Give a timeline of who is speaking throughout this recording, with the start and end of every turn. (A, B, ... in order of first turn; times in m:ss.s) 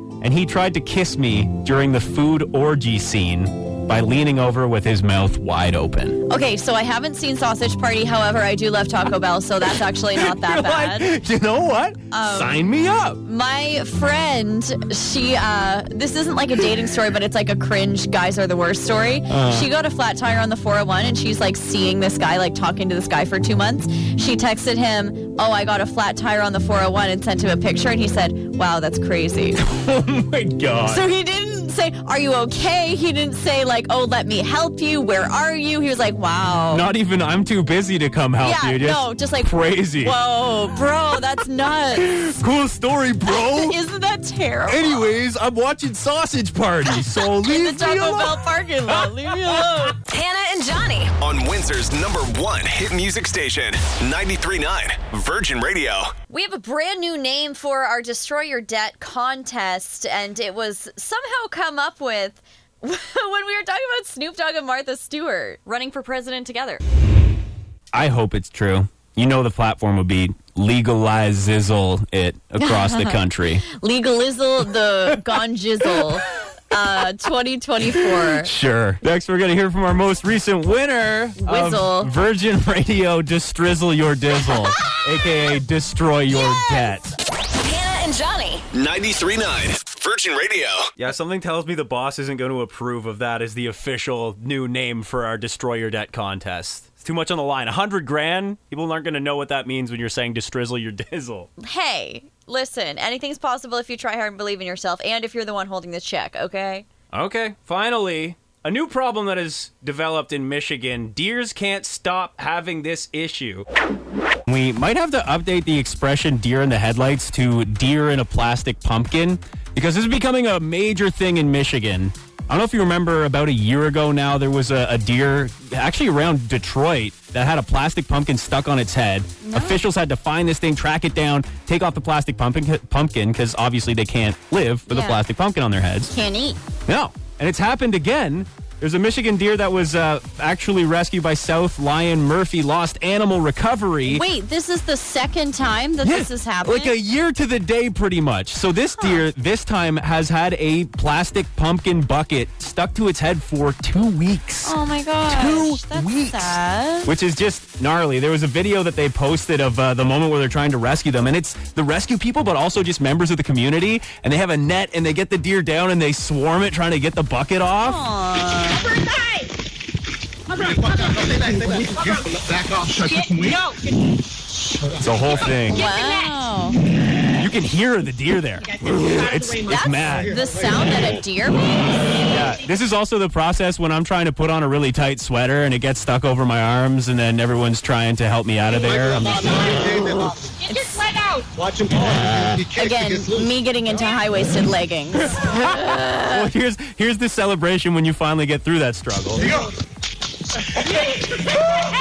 0:00.2-0:06.2 A
0:06.3-0:11.1 B
0:10.2-0:13.2 A
0:12.1-0:12.7 B
0:13.2-0:29.6 B
0:19.3-0:19.7 A
0:29.6-0:31.0 A
0:30.8-0:36.9 B
0:36.7-0:40.2 A
0:38.4-0:42.1 B
0:42.0-0:43.8 A
0:43.2-0:45.1 B
0:44.7-0:49.6 A
0:46.8-0:50.0 B
0:50.1-0:51.1 C
0:51.2-0:56.1 D
0:56.3-1:06.8 B
1:07.9-1:13.6 A
1:12.6-1:13.2 B
1:13.7-1:18.5 B
1:18.4-1:27.1 A
1:21.4-1:22.1 B
1:26.6-1:26.9 B
1:27.6-1:28.6 C
1:28.7-1:30.8 D
1:31.0-1:41.5 A
1:41.6-1:46.8 B
1:47.1-1:53.6 A
1:54.5-2:16.1 A
2:09.4-2:09.8 B
2:14.9-2:15.2 B
2:16.1-2:16.6 B
2:16.9-2:24.2 A
2:24.0-2:26.9 B
2:26.0-2:34.7 A
2:29.0-2:29.2 B
2:34.6-2:37.1 B
2:35.2-2:48.0 A
2:47.8-2:49.1 B
2:55.0-2:55.9 A
2:55.7-2:56.8 B
2:57.4-3:00.4 A
2:59.6-3:02.3 B
3:02.2-3:09.7 A
3:10.7-3:11.0 B
3:12.1-3:12.6 A
3:12.7-3:16.5 B
3:15.3-3:19.5 A